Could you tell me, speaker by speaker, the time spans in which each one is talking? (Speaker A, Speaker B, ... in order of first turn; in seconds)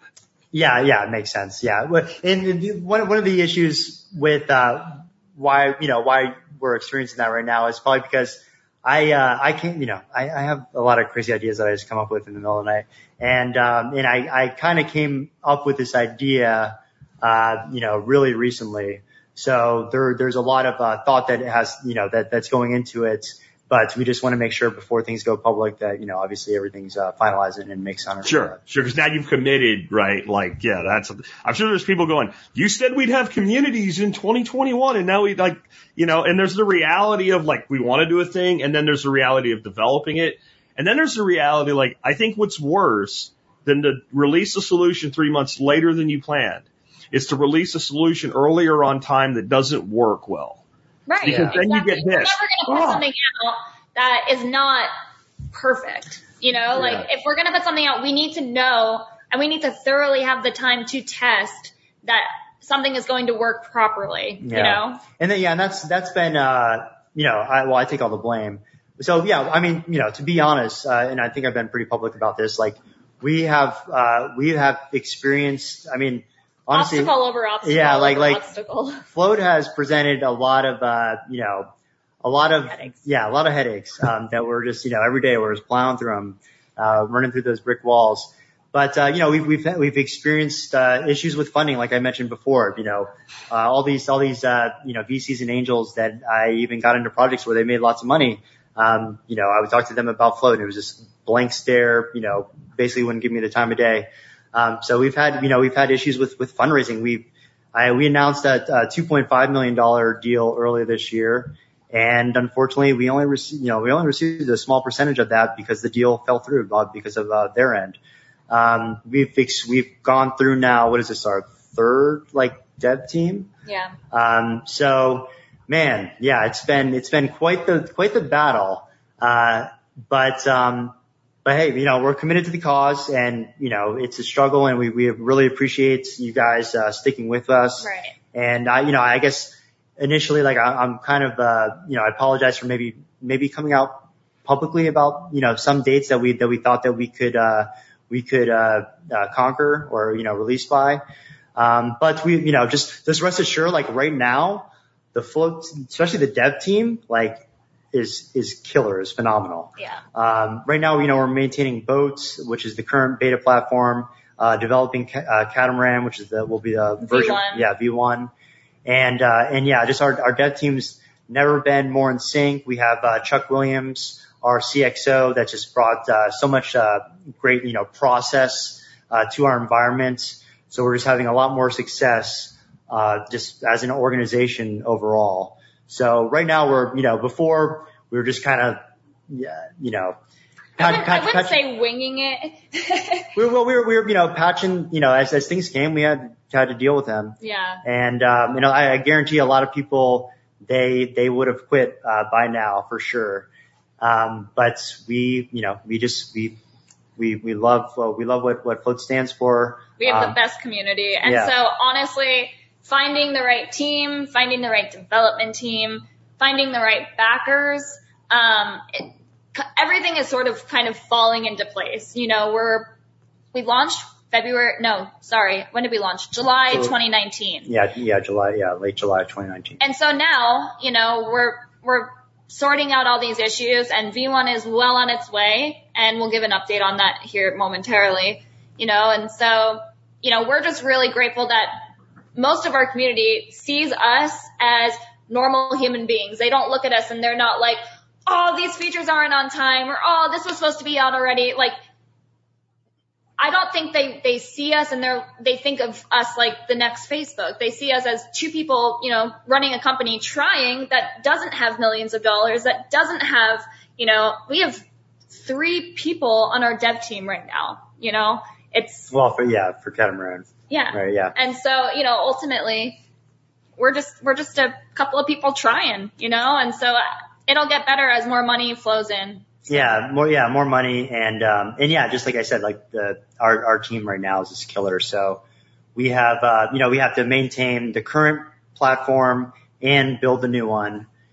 Speaker A: 0.5-28.6, 51.2-51.6, 64.4-78.4, 79.1-81.7, 82.2-118.0, 118.5-123.5, 124.1-151.0, 151.6-168.3, 168.8-190.2, 190.8-191.6, 193.3-203.5, 204.0-206.6, 207.2-210.4, 211.2-211.5, 227.7-229.8, 269.1-271.3, 279.7-285.4, 285.9-291.1
Speaker B: 28.2-50.6, 51.2-53.0
Speaker C: 51.1-54.9, 55.5-65.0, 76.7-79.0, 123.7-124.0, 137.8-138.1, 159.8-160.0, 167.0-167.7, 190.8-193.3, 197.4-197.8, 210.0-222.9, 223.5-227.7, 229.8-251.8, 253.4-269.1, 270.7-273.0, 273.8-280.0